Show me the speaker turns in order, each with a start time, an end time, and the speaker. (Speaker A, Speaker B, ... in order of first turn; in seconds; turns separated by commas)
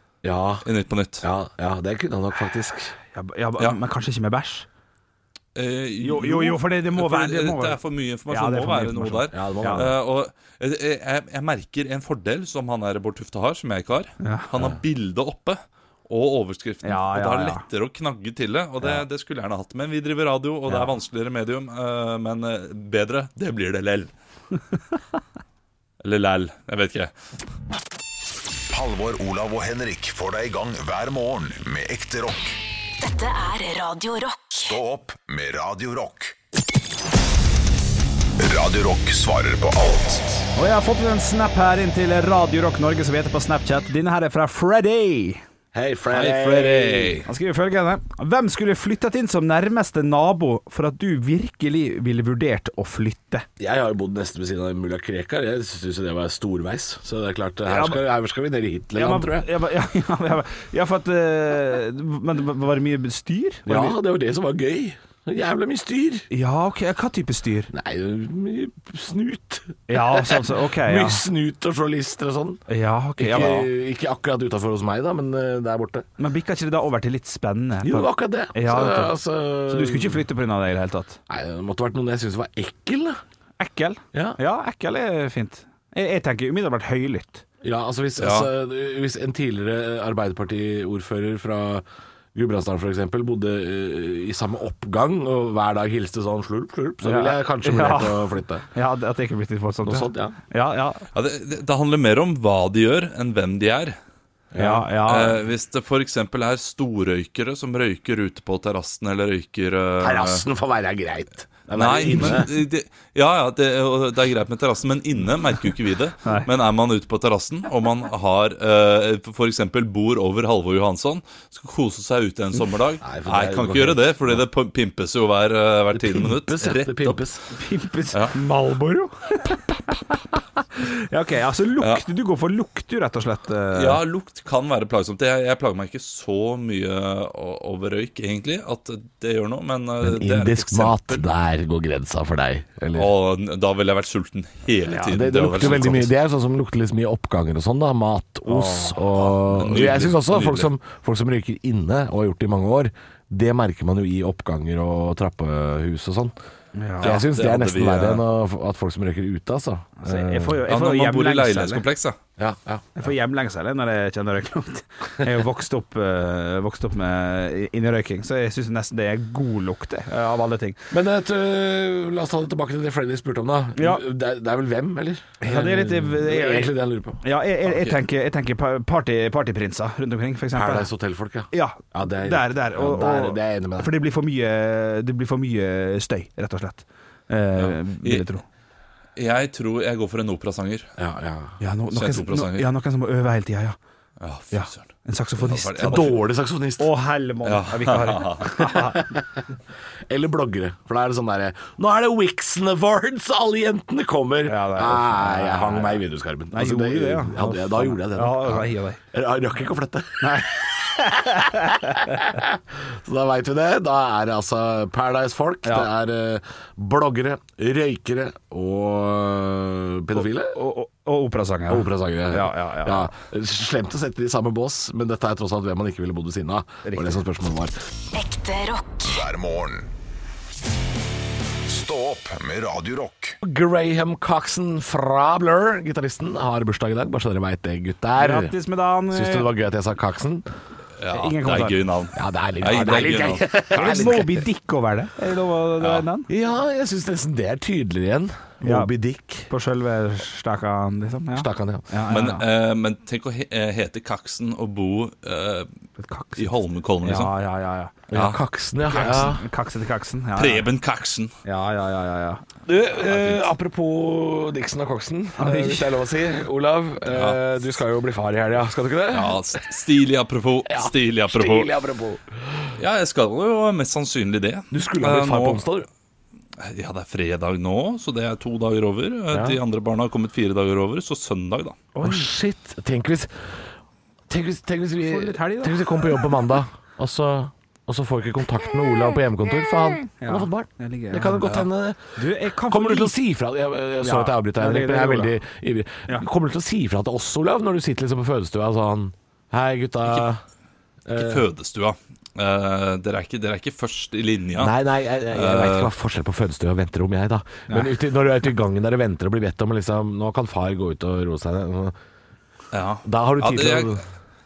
Speaker A: 0.2-0.7, Speaker B: 0.6-1.2, Speaker A: 1.2-3.0, Speaker C: 3.1-4.7, Speaker B: 5.6-24.1, Speaker C: 6.0-9.9, Speaker A: 9.3-10.0, Speaker C: 14.2-14.5, Speaker C: 16.8-17.6, Speaker B: 26.0-27.1, Speaker D: 28.7-32.6, Speaker E: 33.0-34.8, Speaker D: 34.6-36.4, Speaker D: 38.4-40.4, Speaker C: 40.5-45.4, Speaker A: 45.7-47.2, Speaker B: 46.1-47.3, Speaker C: 47.3-53.5, Speaker A: 53.6-59.5, Speaker C: 57.7-58.0, Speaker C: 59.0-64.0, Speaker A: 63.7-66.3, Speaker C: 66.3-67.7, Speaker A: 67.7-72.6, Speaker C: 69.9-71.2, Speaker C: 72.7-73.7, Speaker A: 73.2-76.1, Speaker C: 76.2-79.2, Speaker A: 77.8-80.2, Speaker C: 79.7-81.2, Speaker A: 81.3-83.2, Speaker C: 83.6-87.4, Speaker A: 84.1-84.4, Speaker A: 87.6-98.7, Speaker B: 88.2-88.5, Speaker C: 97.0-98.2, Speaker C: 98.7-101.0, Speaker A: 99.8-100.4, Speaker B: 101.2-104.0, Speaker A: 104.5-104.9, Speaker C: 104.6-105.4, Speaker B: 105.0-110.5, Speaker A: 110.0-112.5, Speaker B: 111.7-127.2, Speaker A: 123.0-124.4, Speaker A: 125.9-127.4, Speaker C: 127.5-129.6, Speaker B: 128.1-128.4, Speaker C: 130.8-134.0, Speaker B: 133.7-141.2, Speaker A: 140.0-143.1, Speaker B: 142.9-146.1, Speaker A: 144.9-156.3, Speaker C: 148.5-149.0, Speaker B: 149.2-150.7, Speaker C: 156.8-157.2, Speaker A: 157.0-160.6, Speaker B: 157.0-158.2, Speaker C: 160.0-161.8, Speaker B: 160.7-162.2, Speaker A: 162.4-163.1, Speaker C: 163.0-170.8, Speaker A: 170.9-177.2, Speaker C: 173.8-174.0, Speaker C: 175.4-180.9, Speaker B: 177.7-178.0, Speaker A: 180.5-183.9, Speaker C: 181.5-188.4, Speaker B: 187.6-188.2, Speaker B: 189.2-190.9, Speaker A: 191.0-191.6, Speaker C: 191.6-193.8, Speaker B: 191.9-192.7, Speaker B: 194.2-196.2, Speaker C: 194.5-196.2, Speaker A: 195.8-196.9, Speaker C: 196.8-199.1, Speaker B: 197.4-198.6, Speaker A: 200.1-220.6, Speaker C: 204.5-209.0, Speaker C: 210.2-212.1, Speaker C: 215.6-215.9, Speaker C: 220.2-223.1, Speaker A: 221.7-227.7, Speaker C: 226.8-227.2, Speaker E: 228.1-229.2, Speaker D: 229.0-229.9, Speaker D: 231.7-233.4, Speaker A: 233.4-238.5, Speaker C: 238.2-239.5, Speaker A: 239.1-240.4, Speaker B: 241.0-244.3, Speaker C: 241.1-241.8, Speaker A: 242.2-244.4, Speaker C: 242.6-246.3, Speaker A: 246.3-249.5, Speaker C: 248.6-248.9, Speaker C: 249.5-252.4, Speaker A: 251.3-251.9, Speaker B: 252.1-255.7, Speaker C: 256.0-256.5, Speaker B: 256.4-257.3, Speaker C: 257.0-257.9, Speaker A: 258.1-259.4, Speaker B: 258.1-258.4, Speaker C: 258.9-260.7, Speaker B: 260.4-261.3, Speaker C: 261.4-262.4, Speaker A: 262.7-269.4, Speaker B: 263.0-263.5, Speaker C: 265.4-265.9, Speaker B: 267.1-267.4, Speaker B: 269.1-271.7, Speaker A: 270.7-272.7, Speaker B: 272.8-275.6, Speaker A: 274.7-275.9, Speaker B: 276.6-281.8, Speaker A: 279.3-279.6, Speaker C: 281.9-282.3, Speaker A: 282.0-283.5, Speaker A: 284.3-300.4, Speaker C: 285.0-286.2, Speaker C: 290.2-291.5, Speaker C: 292.1-293.1, Speaker C: 294.0-295.3, Speaker A: 301.1-301.5, Speaker B: 301.1-304.8, Speaker A: 304.6-312.0, Speaker B: 305.3-305.9, Speaker B: 312.7-314.0, Speaker A: 313.1-314.0